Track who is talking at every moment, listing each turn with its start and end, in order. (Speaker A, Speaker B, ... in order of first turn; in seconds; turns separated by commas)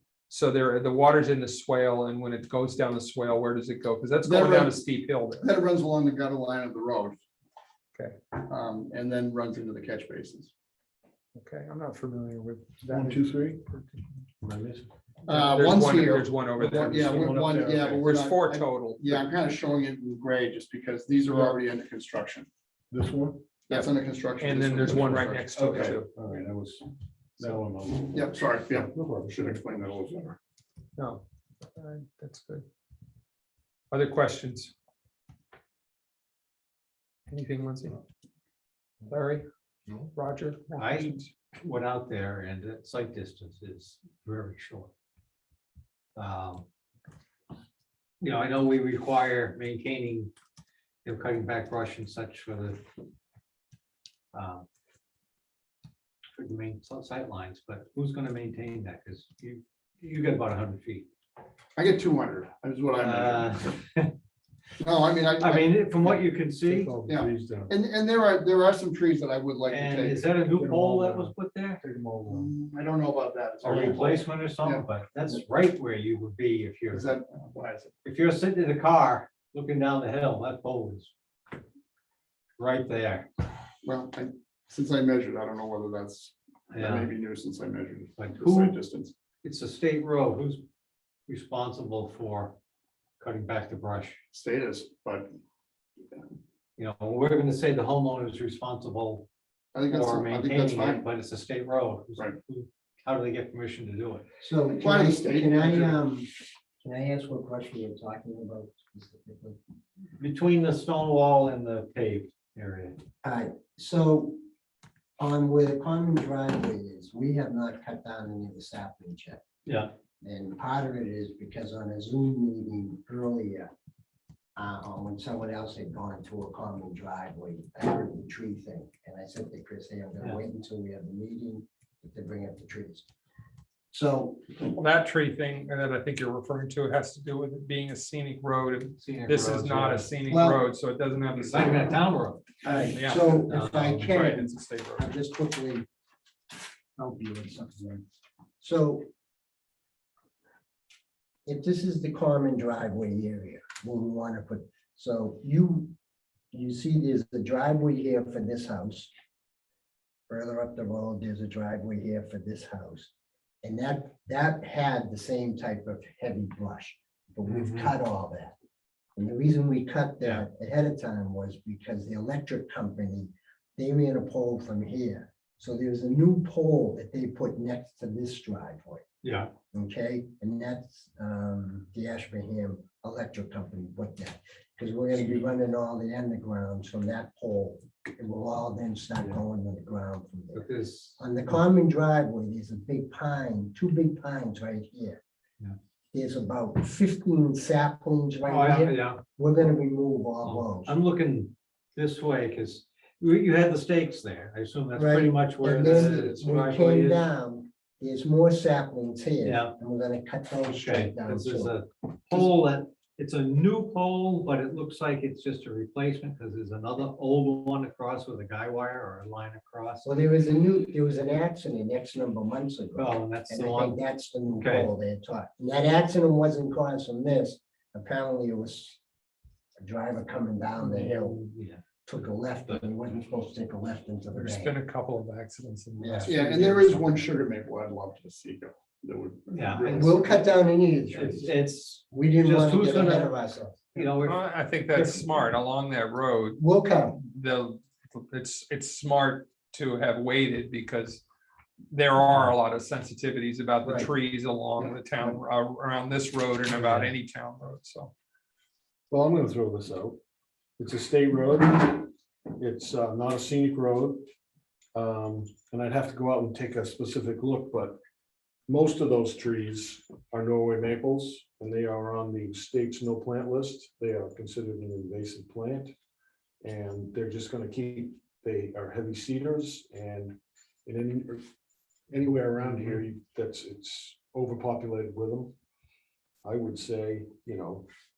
Speaker A: 0.3-5.4, Speaker B: 4.2-4.8, Speaker B: 5.4-7.2, Speaker B: 8.4-10.5, Speaker A: 11.3-14.2, Speaker C: 12.9-13.6, Speaker C: 14.4-14.9, Speaker A: 15.3-19.2, Speaker B: 15.3-22.5, Speaker C: 16.9-18.0, Speaker C: 22.9-23.4, Speaker B: 23.7-26.0, Speaker A: 24.4-26.1, Speaker C: 25.0-25.3, Speaker C: 26.0-29.9, Speaker B: 28.1-30.4, Speaker A: 31.0-31.2, Speaker A: 31.7-32.6, Speaker A: 33.9-34.7, Speaker A: 37.3-38.0, Speaker A: 39.1-39.4, Speaker A: 40.1-41.3, Speaker D: 40.8-44.9, Speaker D: 46.1-46.6, Speaker D: 48.2-50.3, Speaker D: 51.0-52.8, Speaker D: 54.3-54.6, Speaker D: 56.4-61.1, Speaker B: 61.8-63.6, Speaker D: 63.0-64.1, Speaker B: 64.8-66.2, Speaker D: 65.4-67.0, Speaker C: 66.6-67.7, Speaker B: 67.1-70.3, Speaker D: 69.7-71.8, Speaker C: 70.5-72.5, Speaker B: 72.3-74.8, Speaker D: 73.6-77.1, Speaker B: 76.9-77.9, Speaker D: 78.0-81.1, Speaker D: 82.6-83.4, Speaker B: 83.8-89.1, Speaker D: 86.7-87.1, Speaker D: 88.2-88.8, Speaker D: 89.4-90.6, Speaker D: 91.3-92.5, Speaker D: 93.2-94.2, Speaker B: 94.3-95.3, Speaker D: 96.8-99.3, Speaker B: 99.7-101.0, Speaker D: 99.8-104.3, Speaker E: 104.4-109.6, Speaker B: 104.8-106.0, Speaker D: 110.2-113.0, Speaker E: 113.2-114.4, Speaker E: 115.2-119.4, Speaker D: 119.7-119.9, Speaker E: 120.2-123.7, Speaker E: 124.5-133.1, Speaker E: 133.9-134.4, Speaker A: 134.7-142.0, Speaker D: 139.0-140.1, Speaker E: 140.3-140.6, Speaker D: 141.5-142.8, Speaker E: 142.6-145.9, Speaker A: 142.7-143.5, Speaker D: 143.5-144.1, Speaker A: 144.0-145.1, Speaker E: 146.9-148.0, Speaker E: 148.6-149.1, Speaker E: 151.4-155.9, Speaker E: 156.5-159.1, Speaker E: 160.3-163.1, Speaker E: 163.6-168.5, Speaker E: 169.2-179.0, Speaker D: 179.2-179.5, Speaker E: 179.7-190.6, Speaker D: 190.5-191.6, Speaker E: 191.2-195.2, Speaker E: 196.1-200.9, Speaker D: 198.4-199.2, Speaker D: 200.4-207.3, Speaker E: 204.9-211.8, Speaker B: 205.9-206.3, Speaker D: 209.4-209.8, Speaker D: 210.7-220.1, Speaker E: 220.0-229.0, Speaker D: 222.9-224.9, Speaker E: 229.8-231.4, Speaker D: 230.8-232.9, Speaker E: 232.1-234.7, Speaker A: 234.3-237.0, Speaker E: 236.0-237.1, Speaker B: 236.3-240.5, Speaker D: 239.5-240.3, Speaker E: 239.9-241.5, Speaker D: 241.1-243.4, Speaker E: 242.1-243.9, Speaker D: 243.9-245.4, Speaker A: 244.2-251.2, Speaker E: 246.6-247.2, Speaker A: 251.9-258.1, Speaker E: 253.8-254.1, Speaker B: 254.8-255.3, Speaker D: 256.7-257.1, Speaker C: 259.1-260.2, Speaker C: 260.8-264.3, Speaker C: 264.9-268.0, Speaker C: 268.7-275.9, Speaker C: 276.6-281.4, Speaker C: 282.1-285.6, Speaker C: 286.4-287.9